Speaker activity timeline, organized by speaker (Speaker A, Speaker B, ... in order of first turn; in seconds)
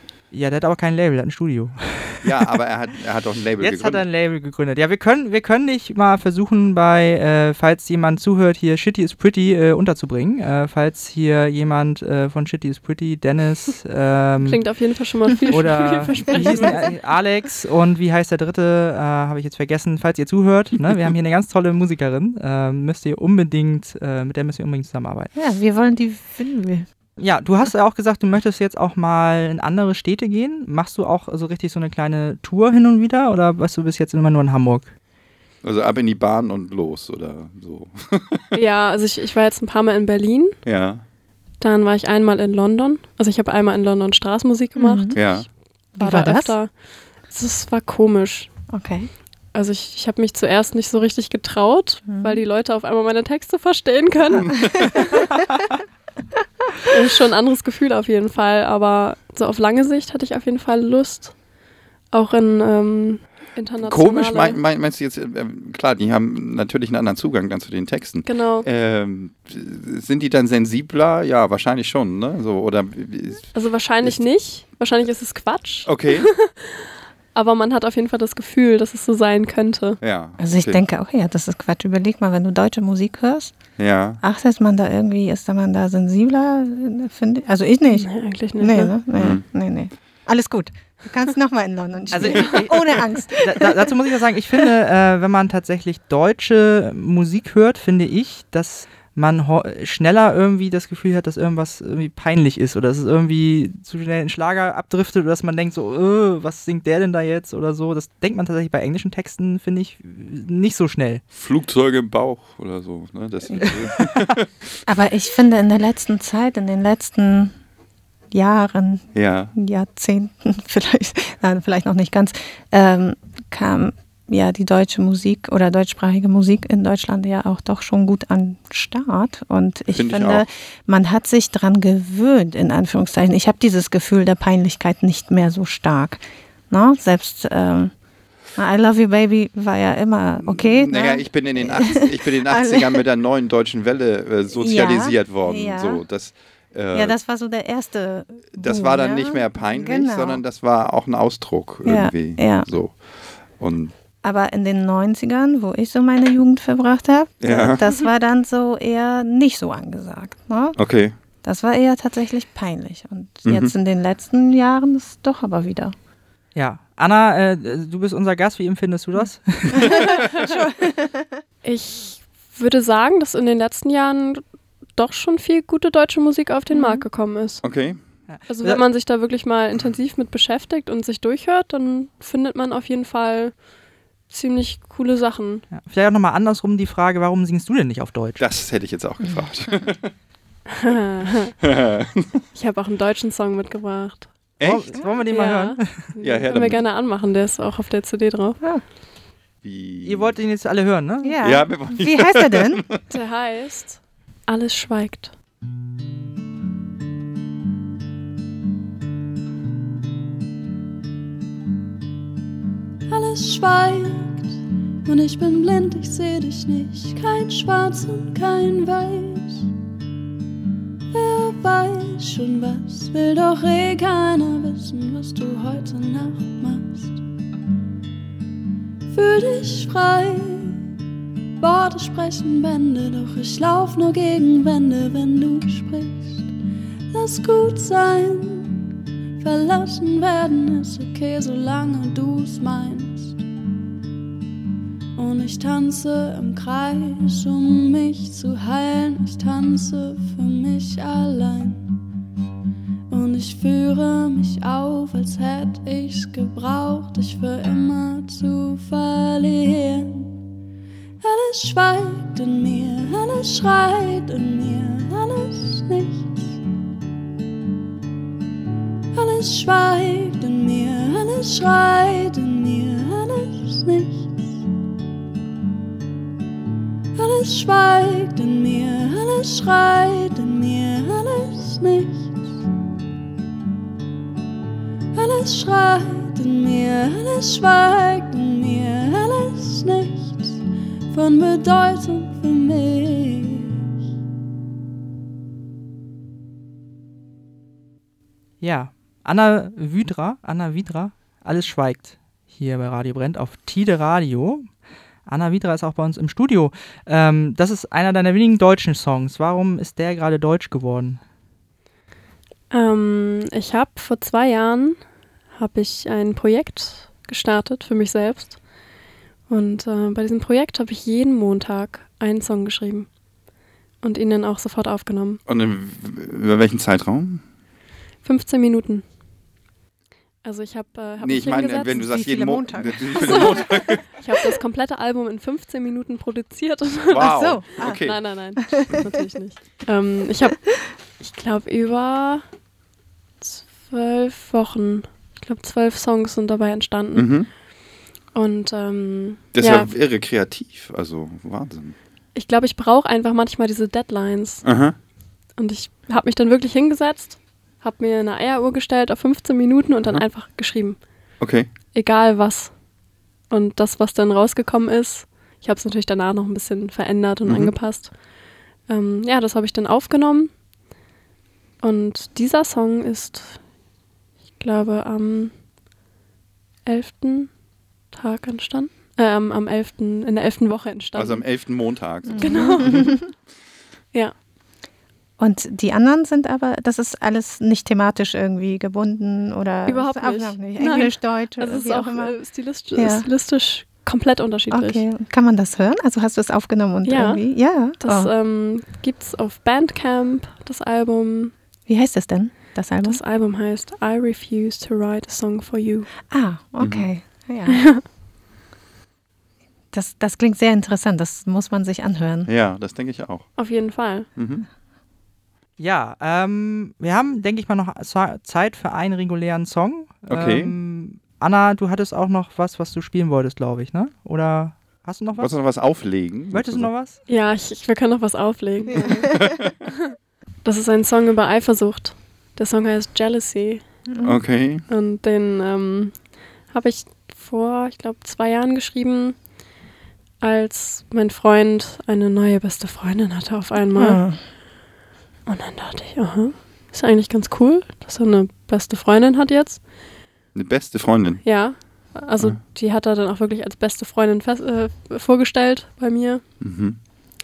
Speaker A: 0.3-2.6, 3.6-25.3, 27.2-34.9, 92.1-111.2, 166.6-170.0, 178.3-178.8, 185.7-188.5, 194.6-196.1, 200.1-201.4, 298.6-311.2, 415.8-425.6, 426.5-427.2
Speaker B: 2.2-4.1, 35.6-38.5, 40.6-41.0, 45.2-45.5, 54.4-54.9, 63.8-74.2, 75.8-76.3, 80.0-80.8, 83.8-84.2, 89.2-89.4, 111.3-114.6, 119.1-119.5, 129.9-130.5, 140.4-147.2, 148.6-153.9, 157.4-157.8, 160.8-161.2, 163.4-163.7, 177.6-178.0, 188.4-190.1, 191.6-192.3, 194.6-195.0, 196.2-196.8, 199.6-200.4, 201.4-203.0, 325.5-327.4, 331.2-334.2, 337.1-338.2, 347.1-347.5, 349.5-352.0, 354.6-355.0, 361.4-361.7, 367.5-367.7, 381.2-383.1, 406.8-407.1, 412.5-413.6, 414.4-414.7, 420.3-420.7, 425.4-426.9, 434.2-434.9, 450.5-451.4, 456.6-457.0
Speaker C: 14.4-17.0, 38.5-40.6, 41.6-45.4, 46.0-48.5, 49.5-55.2, 56.9-61.4, 62.1-64.6, 68.2-68.7, 73.5-80.0, 87.9-89.0, 171.6-174.4, 174.9-177.9, 178.5-183.7, 184.3-185.7, 190.7-191.6, 192.5-194.5, 195.3-198.6, 203.1-205.3, 312.7-315.0, 315.5-318.6, 319.5-323.1, 324.0-325.4, 328.2-329.1, 330.4-332.2, 333.2-342.4, 343.4-347.4, 348.3-349.9, 352.4-354.7, 355.6-361.0, 361.9-362.8, 363.5-368.2, 368.9-370.5, 371.8-373.6, 374.6-375.6, 376.9-377.6, 378.1-383.4, 389.9-395.0, 397.1-401.5, 403.1-406.1, 407.7-408.0, 413.6-414.3, 427.3-429.9, 430.6-433.9, 434.9-439.4, 440.4-444.4, 445.5-449.9, 451.4-456.4
Speaker D: 25.3-26.9, 44.8-45.2, 45.9-46.6, 48.7-49.1, 52.1-52.4, 80.4-83.6, 84.2-93.9, 114.9-117.5, 118.3-137.9, 138.6-143.0, 144.5-146.0, 146.9-150.4, 151.8-152.7, 154.2-160.8, 161.4-165.9, 170.4-171.3, 176.7-177.1, 201.2-202.9, 331.9-333.6, 337.2-339.0, 382.3-383.1, 385.4-393.3, 394.7-398.3, 401.9-403.2, 406.3-408.0, 409.9-412.5, 434.1-434.4, 443.9-444.4
Speaker E: 213.1-219.7, 221.1-227.2, 229.1-230.8, 231.6-236.5, 237.1-238.8, 239.4-243.4, 245.2-251.9, 253.1-260.3, 261.2-266.6, 269.1-274.6, 277.1-282.5, 285.1-293.8